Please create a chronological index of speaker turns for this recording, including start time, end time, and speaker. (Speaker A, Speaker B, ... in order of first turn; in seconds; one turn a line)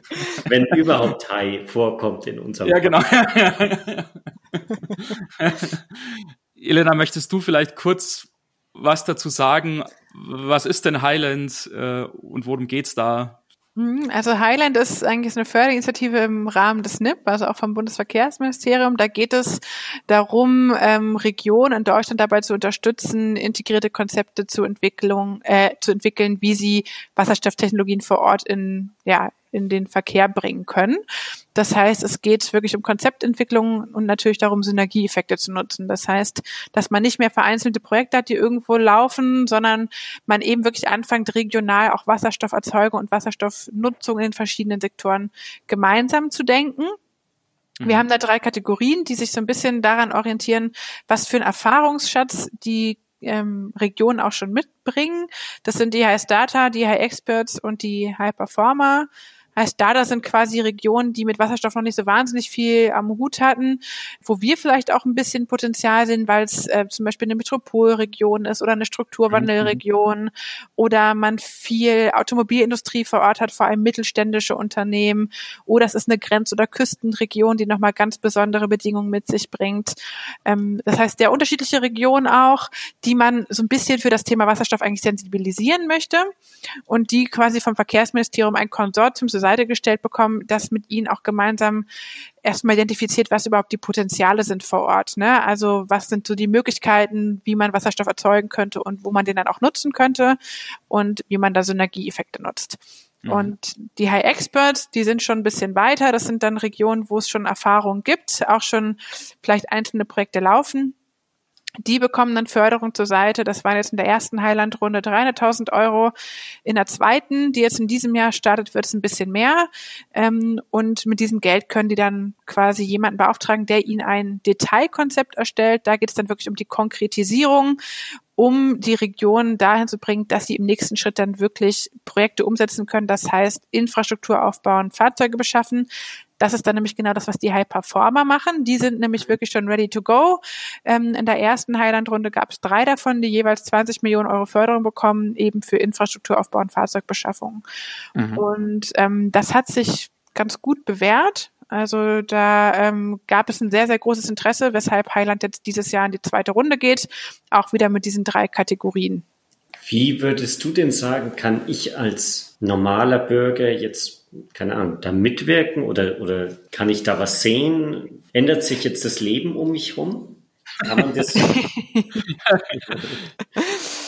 Speaker A: 0.3-0.9
Speaker B: 0.4-2.9
Speaker A: 2.6-13.4
Speaker C: 13.8-31.0
Speaker C: 31.5-47.0
Speaker A: 47.8-48.0
Speaker C: 47.8-86.3
Speaker A: 69.3-69.8
Speaker C: 86.9-91.9
Speaker C: 92.4-100.4
Speaker C: 100.9-111.0
Speaker A: 103.2-103.5
Speaker C: 111.8-116.1
Speaker C: 116.6-127.8
Speaker C: 128.3-135.9
Speaker C: 136.4-147.6
Speaker A: 148.1-148.4
Speaker C: 148.3-159.2
Speaker B: 159.8-171.5
Speaker C: 171.4-172.2
Speaker A: 172.3-172.8
Speaker B: 172.9-173.2
Speaker C: 173.6-173.8